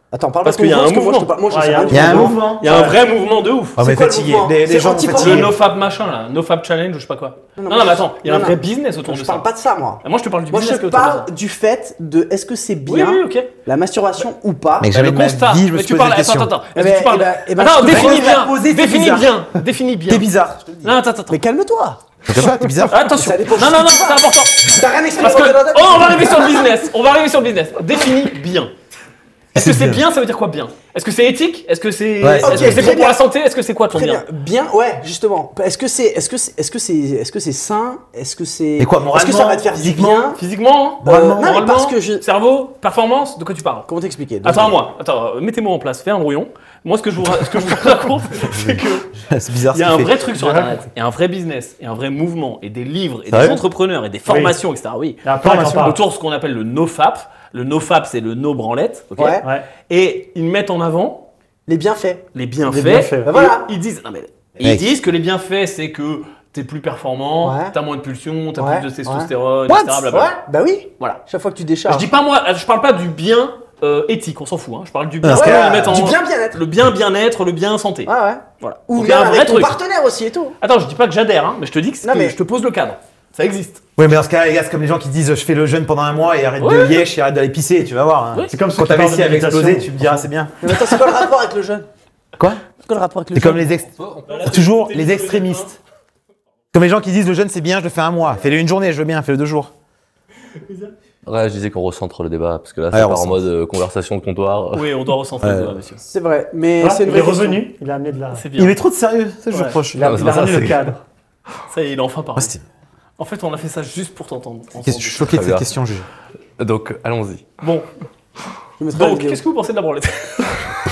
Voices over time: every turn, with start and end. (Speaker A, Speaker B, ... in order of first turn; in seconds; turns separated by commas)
Speaker A: 0.1-2.9, Speaker B: 0.4-1.4, Speaker C: 1.5-2.2, Speaker D: 1.9-3.0, Speaker B: 2.0-3.8, Speaker D: 3.8-5.6, Speaker A: 3.8-5.5, Speaker B: 5.1-9.4, Speaker A: 7.6-15.0, Speaker B: 10.0-11.3, Speaker B: 12.8-13.5, Speaker D: 14.8-16.5, Speaker B: 14.9-20.3, Speaker A: 16.7-18.4, Speaker D: 17.8-19.5, Speaker D: 20.1-20.9, Speaker B: 20.8-21.4, Speaker A: 21.3-22.0, Speaker D: 22.2-23.1, Speaker B: 22.9-28.7, Speaker A: 23.1-26.7, Speaker D: 29.5-30.0, Speaker B: 29.5-34.2, Speaker D: 32.2-33.0, Speaker A: 32.4-33.2, Speaker A: 33.9-40.4, Speaker D: 38.8-40.4, Speaker B: 40.4-43.9, Speaker D: 41.0-41.5, Speaker A: 41.0-42.2, Speaker A: 43.9-44.8, Speaker B: 44.4-49.1, Speaker D: 48.5-50.3, Speaker B: 49.7-61.3, Speaker C: 50.3-50.8, Speaker D: 53.3-53.6, Speaker C: 54.3-54.6, Speaker C: 55.2-56.0, Speaker A: 59.1-59.5, Speaker C: 59.4-59.7, Speaker A: 61.7-62.3, Speaker B: 62.3-70.3, Speaker C: 62.6-63.4, Speaker A: 63.2-63.7, Speaker D: 64.6-64.8, Speaker A: 67.4-67.7, Speaker A: 68.6-69.3, Speaker D: 69.7-70.1, Speaker A: 70.0-72.1, Speaker B: 71.9-79.8, Speaker D: 75.2-76.1, Speaker A: 75.3-76.6, Speaker A: 78.0-80.6, Speaker B: 80.6-83.8, Speaker A: 82.0-82.4, Speaker D: 84.0-91.1, Speaker B: 86.6-87.1, Speaker C: 88.5-90.2, Speaker A: 90.6-91.9, Speaker D: 92.4-92.6, Speaker A: 92.8-93.6, Speaker D: 93.3-95.8, Speaker E: 94.0-94.3, Speaker B: 94.3-95.7, Speaker D: 96.7-99.7, Speaker E: 101.2-104.9, Speaker D: 102.9-103.4, Speaker B: 104.7-106.0, Speaker D: 105.4-105.8, Speaker A: 106.0-107.6, Speaker C: 106.8-108.4, Speaker B: 108.3-108.8, Speaker D: 108.5-110.5, Speaker C: 109.9-111.0, Speaker E: 109.9-110.9, Speaker B: 111.7-112.5, Speaker D: 112.4-112.6, Speaker B: 113.2-115.4, Speaker D: 114.8-116.0, Speaker E: 115.3-115.7, Speaker E: 116.6-117.5, Speaker B: 117.6-117.9, Speaker A: 118.8-119.4, Speaker B: 118.9-120.6